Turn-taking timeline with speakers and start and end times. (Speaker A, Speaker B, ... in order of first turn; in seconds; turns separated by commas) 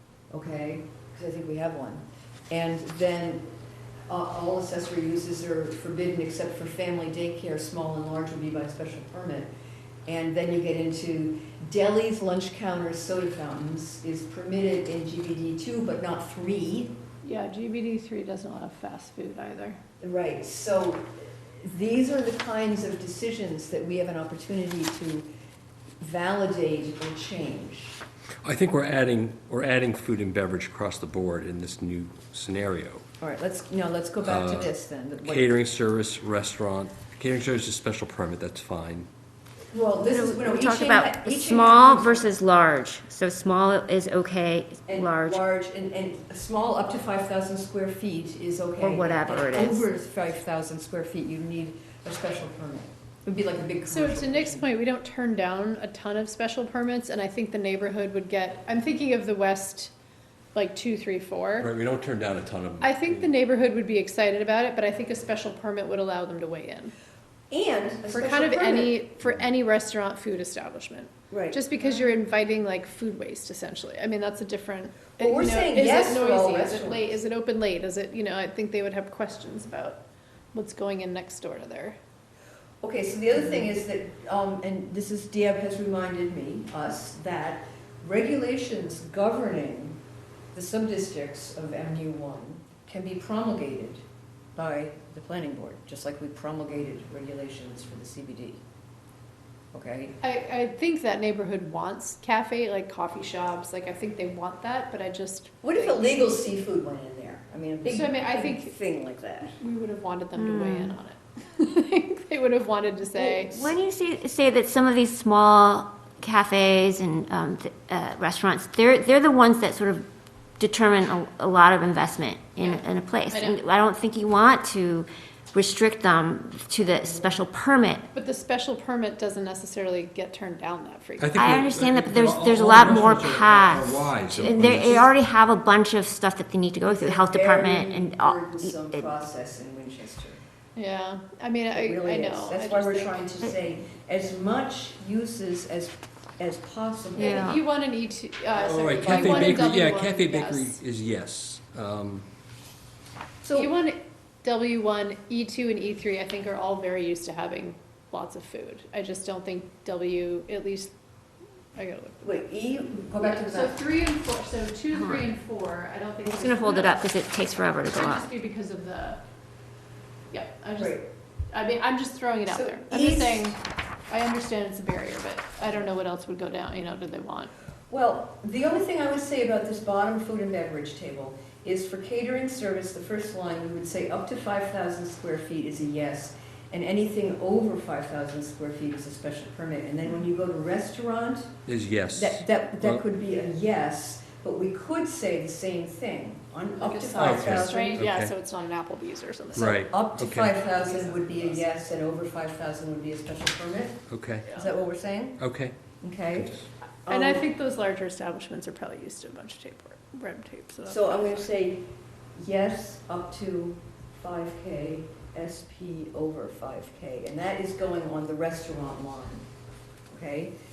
Speaker A: 0.3-3.5, Speaker A: 4.1-9.5, Speaker A: 10.1-17.0, Speaker B: 17.2-19.8, Speaker A: 20.0-25.3, Speaker A: 26.0-28.0, Speaker C: 28.4-33.0, Speaker A: 33.2-35.5, Speaker C: 34.2-34.7, Speaker C: 35.2-39.1, Speaker A: 39.7-42.3, Speaker D: 40.0-45.4, Speaker A: 44.9-54.7, Speaker D: 48.8-49.9, Speaker B: 53.9-59.9, Speaker B: 60.5-61.7, Speaker C: 61.6-63.3, Speaker B: 62.8-66.9, Speaker A: 67.5-69.0, Speaker B: 68.1-80.0, Speaker A: 71.3-71.6, Speaker A: 75.2-77.1, Speaker B: 80.5-82.0, Speaker A: 82.8-90.0, Speaker A: 90.5-94.0, Speaker A: 94.5-98.6, Speaker A: 99.7-100.2, Speaker B: 100.2-106.2, Speaker A: 105.6-109.6, Speaker B: 107.8-108.8, Speaker B: 109.5-113.6, Speaker D: 110.4-110.9, Speaker A: 113.2-113.7, Speaker D: 113.4-120.1, Speaker D: 120.6-128.1, Speaker B: 122.6-123.6, Speaker B: 128.1-131.4, Speaker C: 131.2-135.1, Speaker D: 131.4-139.1, Speaker A: 136.8-140.4, Speaker B: 140.8-143.2, Speaker A: 141.7-147.6, Speaker B: 147.2-150.8, Speaker D: 147.2-147.6, Speaker C: 148.5-152.3, Speaker A: 149.0-149.7, Speaker A: 153.4-153.7, Speaker B: 153.5-160.9, Speaker B: 161.8-162.4, Speaker A: 162.2-163.8, Speaker B: 163.2-167.1, Speaker D: 164.9-165.3, Speaker D: 166.2-168.3, Speaker B: 167.9-169.2, Speaker B: 170.3-177.5, Speaker A: 170.8-171.0, Speaker A: 172.5-173.6, Speaker A: 177.9-191.6, Speaker C: 191.7-193.0, Speaker A: 192.1-198.0, Speaker B: 196.8-199.9, Speaker C: 197.2-198.3, Speaker C: 199.6-200.7, Speaker A: 199.7-205.4, Speaker B: 200.8-201.5, Speaker C: 204.1-204.5, Speaker C: 205.4-206.7, Speaker A: 206.0-206.6, Speaker A: 207.1-207.4, Speaker B: 207.1-211.4, Speaker A: 210.8-219.5, Speaker A: 220.1-220.5